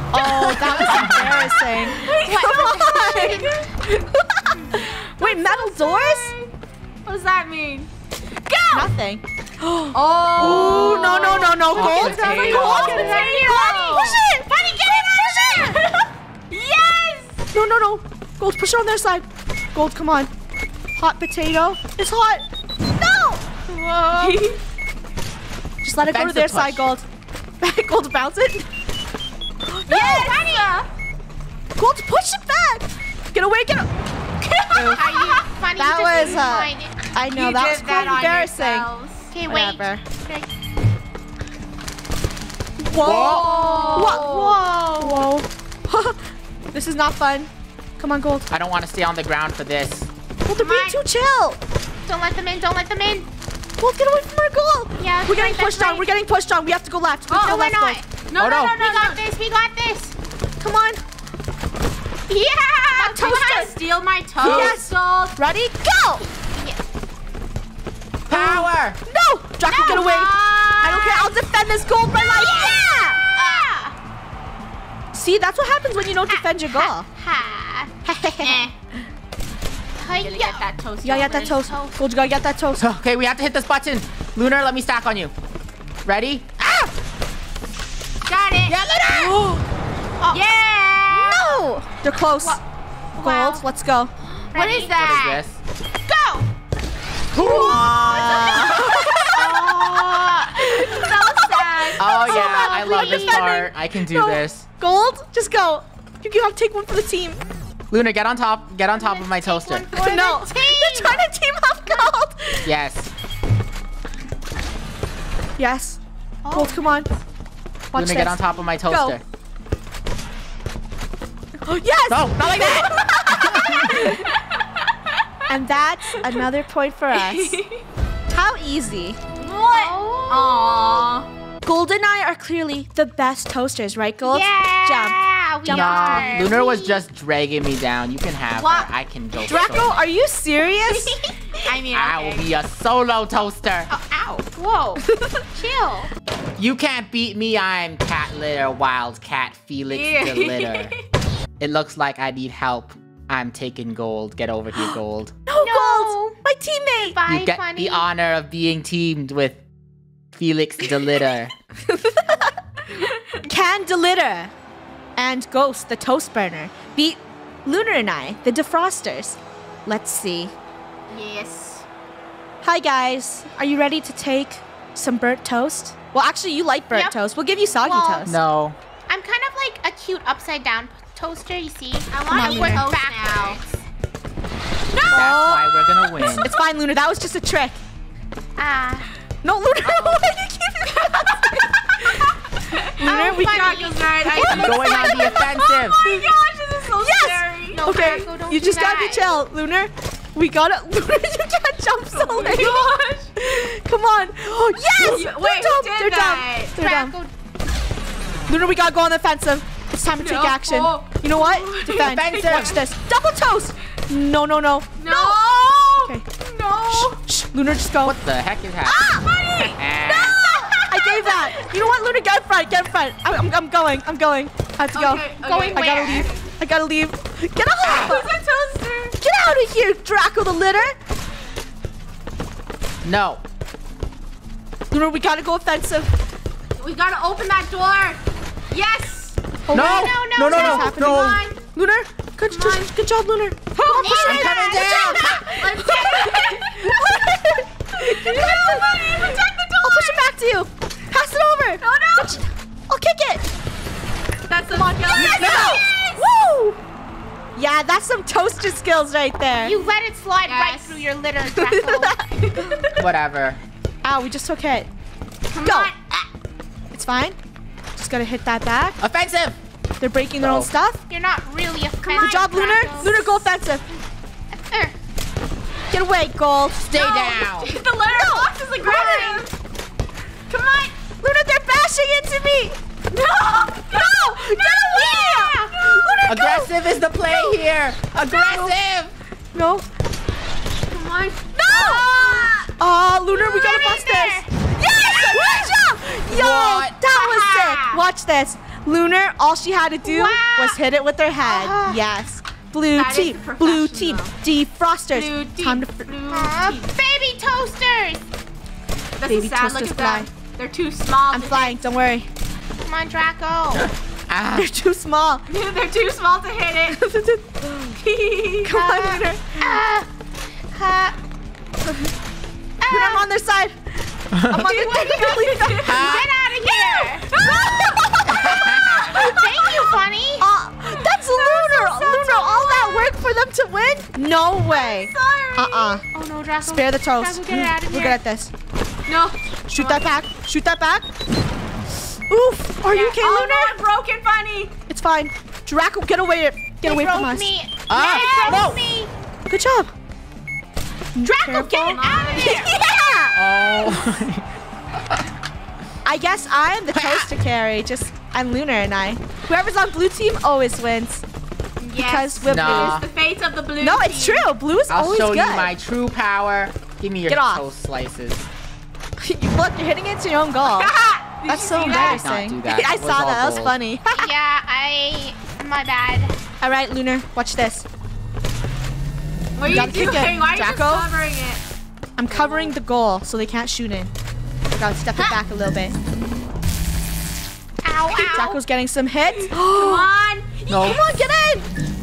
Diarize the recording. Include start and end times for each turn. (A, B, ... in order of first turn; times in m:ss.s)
0:00.1-0:06.3 A
0:00.2-0:01.4 B
0:00.3-0:03.7 C
0:03.1-0:03.5 D
0:04.8-0:06.5 C
0:07.0-0:07.9 C
0:08.4-0:08.9 C
0:08.7-0:14.5 A
0:09.9-0:14.2 C
0:10.4-0:10.9 B
0:11.7-0:13.1 B
0:11.8-0:15.8 D
0:14.9-0:17.4 C
0:15.1-0:15.8 A
0:17.5-0:20.3 A
0:21.0-0:23.4 A
0:23.7-0:24.5 D
0:24.1-0:24.6 C
0:25.8-0:27.0 A
0:26.0-0:26.8 B
0:27.6-0:28.7 A
0:29.6-0:30.6 A
0:29.9-0:30.9 C
0:30.2-0:30.6 D
0:31.8-0:33.9 A
0:34.4-0:35.4 C
0:34.7-0:35.0 A
0:35.0-0:36.9 D
0:35.8-0:38.9 A
0:37.3-0:39.3 C
0:39.3-0:40.5 D
0:39.5-0:40.0 A
0:42.8-0:46.2 A
0:43.0-0:43.6 B
0:43.0-0:44.6 C
0:43.6-0:45.2 D
0:46.7-0:48.5 A
0:48.5-0:50.1 B
0:50.4-0:51.6 A
0:50.6-0:51.0 D
0:52.0-0:53.3 D
0:53.8-0:58.0 A
0:55.0-0:56.1 D
0:57.3-0:58.1 D
0:58.2-0:59.2 C
0:58.4-0:58.8 B
0:58.7-1:00.1 D
1:00.6-1:01.0 A
1:02.3-1:03.7 D
1:02.9-1:05.4 C
1:03.1-1:03.7 A
1:04.4-1:06.2 A
1:04.4-1:04.8 B
1:06.5-1:06.8 D
1:08.3-1:09.0 B
1:08.3-1:13.2 A
1:09.6-1:10.1 D
1:09.7-1:11.3 C
1:12.3-1:12.8 D
1:13.3-1:14.0 D
1:13.4-1:13.7 C
1:15.1-1:17.0 A
1:16.3-1:17.9 D
1:18.0-1:18.6 A
1:18.4-1:18.8 C
1:20.0-1:22.0 D
1:20.1-1:21.6 C
1:21.0-1:22.9 A
1:22.8-1:25.3 B
1:26.0-1:26.9 B
1:28.2-1:28.8 C
1:28.7-1:29.4 B
1:29.1-1:29.6 A
1:30.3-1:31.5 C
1:31.1-1:32.6 A
1:33.2-1:33.6 D
1:33.2-1:34.1 A
1:34.5-1:35.4 C
1:34.5-1:35.2 D
1:34.9-1:35.6 B
1:36.0-1:36.5 D
1:37.3-1:39.0 B
1:37.4-1:47.4 A
1:39.3-1:40.8 D
1:40.6-1:42.2 C
1:42.0-1:44.6 B
1:42.1-1:43.7 D
1:47.9-1:49.9 B
1:48.9-1:51.2 D
1:49.9-1:52.7 A
1:52.6-1:53.1 B
1:55.6-1:56.0 A
1:56.4-1:57.2 D
1:56.5-1:57.1 A
1:57.9-1:59.2 A
1:57.9-1:59.2 B
2:01.6-2:04.2 A
2:02.1-2:04.2 B
2:04.0-2:04.8 C
2:05.5-2:07.6 A
2:07.1-2:07.8 C
2:08.3-2:09.2 A
2:09.4-2:11.3 C
2:09.7-2:11.0 D
2:11.6-2:16.5 A
2:14.2-2:17.0 D
2:15.7-2:19.9 B
2:18.6-2:18.9 C
2:19.5-2:21.2 A
2:20.9-2:21.2 D
2:21.6-2:22.5 C
2:21.9-2:23.9 B
2:23.9-2:26.1 D
2:25.0-2:25.4 A
2:26.6-2:30.9 B
2:29.9-2:31.0 C
2:31.6-2:35.3 B
2:35.5-2:37.2 A
2:35.6-2:36.4 D
2:37.0-2:38.0 D
2:37.2-2:39.6 B
2:40.3-2:41.5 B
2:41.8-2:42.5 A
2:43.4-2:44.5 A
2:45.2-2:50.5 A
2:51.1-2:51.8 C
2:52.6-2:58.4 A
2:57.8-2:58.4 D
2:58.2-2:58.8 B
2:59.1-3:03.8 D
3:02.1-3:03.6 C
3:02.3-3:02.9 A
3:04.9-3:05.3 C
3:05.0-3:06.5 B
3:05.1-3:07.8 A
3:08.6-3:09.1 D
3:09.4-3:12.3 A
3:09.8-3:10.3 C
3:10.9-3:18.2 C
3:13.0-3:13.8 A
3:13.0-3:15.5 D
3:14.4-3:16.0 B
3:17.0-3:27.1 A
3:17.7-3:19.4 D
3:22.1-3:23.3 C
3:25.0-3:26.8 C
3:26.8-3:27.3 D
3:28.5-3:36.2 A
3:30.2-3:32.8 C
3:32.0-3:32.8 B
3:35.0-3:37.2 C
3:36.9-3:38.2 A
3:38.0-3:40.4 B
3:38.8-3:39.3 A
3:39.0-3:41.7 C
3:40.5-3:48.3 A
3:44.9-3:46.4 C
3:45.4-3:46.3 D
3:47.8-3:48.2 B
3:47.8-3:49.2 C
3:49.2-3:51.0 A
3:53.0-3:53.4 B
3:54.9-3:56.1 A
3:56.8-3:59.4 C
3:59.7-4:13.4 A
3:59.7-4:01.4 B
3:59.7-4:00.9 D
4:00.6-4:01.6 C
4:02.5-4:02.9 C
4:03.8-4:10.2 C
4:03.9-4:04.9 D
4:04.2-4:05.5 B
4:11.8-4:12.4 C
4:14.5-4:16.2 C
4:14.7-4:16.8 A
4:15.2-4:15.7 B
4:17.5-4:19.8 A
4:19.6-4:22.2 D
4:20.4-4:21.0 C
4:21.5-4:22.7 A
4:22.3-4:23.0 C
4:23.0-4:23.6 B
4:24.0-4:24.9 A
4:25.5-4:26.3 C
4:25.6-4:25.9 A
4:26.9-4:27.4 A
4:28.0-4:29.0 A
4:29.0-4:29.6 B
4:30.0-4:31.0 A
4:30.4-4:30.7 B
4:31.1-4:33.4 D
4:32.0-4:33.8 A
4:32.0-4:33.1 C
4:34.7-4:34.9 D
4:35.9-4:36.8 A
4:36.8-4:37.7 B
4:36.9-4:39.5 C
4:38.1-4:39.4 A
4:38.8-4:39.4 D
4:40.5-4:40.9 C
4:41.2-4:42.8 A
4:43.1-4:46.2 C
4:43.9-4:46.7 A
4:46.2-4:49.1 B
4:48.2-4:48.8 A
4:49.5-4:49.8 A
4:50.9-4:52.7 C
4:51.5-4:52.1 A
4:52.7-5:06.1 A
4:53.3-4:54.5 D
4:55.0-4:55.8 B
4:56.3-4:57.0 B
4:57.1-4:58.0 C
5:00.0-5:00.8 D
5:01.4-5:02.0 D
5:02.9-5:04.3 C
5:05.1-5:06.9 C
5:06.3-5:08.2 D
5:09.2-5:11.8 C
5:09.3-5:10.3 A
5:11.3-5:12.3 A
5:12.8-5:13.9 D
5:13.8-5:14.7 B
5:14.5-5:15.4 A
5:15.5-5:17.0 C
5:16.9-5:18.0 A
5:18.0-5:18.8 C
5:18.6-5:19.6 A
5:18.8-5:20.1 D
5:20.7-5:21.2 D
5:22.8-5:23.2 D
5:22.9-5:23.8 A
5:24.3-5:24.7 B
5:24.4-5:26.2 A
5:24.6-5:26.2 C
5:24.6-5:27.3 D
5:25.8-5:26.3 B
5:27.3-5:27.7 C
5:27.3-5:29.4 A
5:28.2-5:29.2 B
5:29.1-5:30.5 D
5:30.4-5:36.0 A
5:31.3-5:32.3 C
5:31.4-5:33.1 D
5:34.7-5:36.0 C
5:36.1-5:38.2 D
5:36.6-5:38.5 A
5:39.1-5:40.0 C
5:39.7-5:41.0 A
5:42.3-5:43.8 A
5:42.9-5:44.7 C
5:44.9-5:47.5 A
5:46.8-5:49.1 D
5:47.9-5:48.8 B
5:47.9-5:48.8 C
5:49.5-5:49.9 A
5:51.1-5:53.4 A
5:51.4-5:52.7 C
5:51.8-5:52.8 D
5:53.3-5:54.4 B
5:56.0-6:01.2 A
5:56.9-5:57.3 B
6:01.8-6:04.5 C
6:02.0-6:03.0 A
6:02.5-6:03.0 B
6:03.8-6:05.7 A
6:04.9-6:08.4 B
6:07.3-6:07.6 A
6:09.2-6:10.9 A
6:10.6-6:12.3 C
6:11.4-6:14.3 A
6:11.8-6:13.8 B
6:14.1-6:16.4 D
6:16.6-6:17.8 A
6:19.6-6:21.6 C
6:19.6-6:21.1 A
6:22.2-6:24.1 A
6:22.4-6:22.6 C
6:24.7-6:26.0 A
6:27.8-6:28.6 D
6:28.1-6:30.1 A
6:29.4-6:31.3 C
6:30.7-6:31.1 B
6:30.8-6:31.7 A